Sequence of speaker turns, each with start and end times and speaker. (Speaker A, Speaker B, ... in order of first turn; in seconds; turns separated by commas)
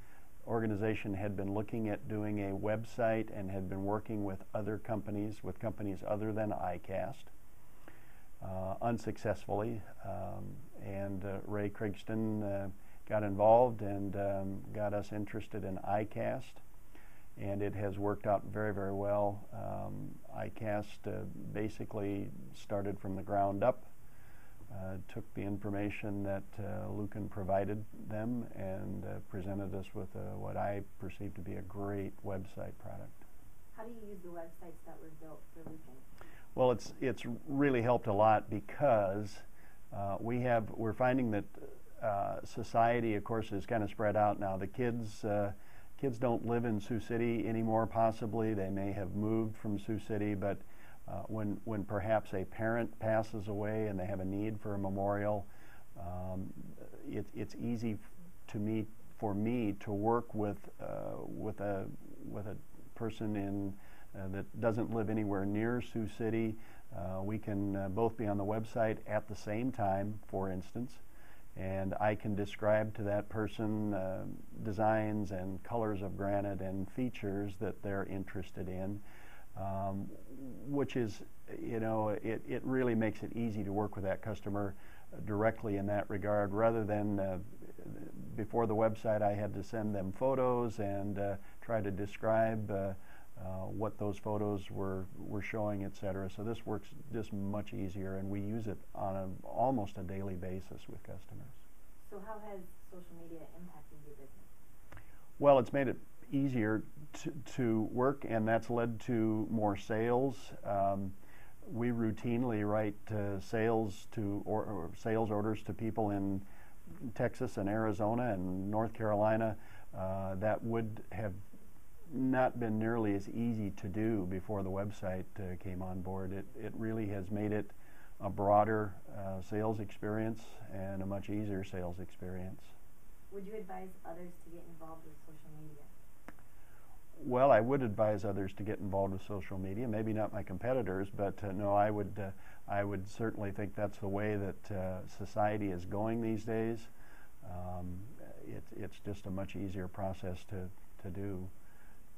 Speaker A: 0.4-7.3, Speaker A: 8.4-16.6, Speaker A: 17.4-23.9, Speaker A: 24.7-33.2, Speaker B: 33.7-36.0, Speaker A: 36.5-71.0, Speaker A: 71.5-79.0, Speaker A: 79.5-101.6, Speaker B: 102.0-104.5, Speaker A: 105.4-121.4, Speaker A: 122.1-132.7, Speaker B: 133.3-135.9, Speaker A: 137.2-146.9, Speaker A: 147.4-151.5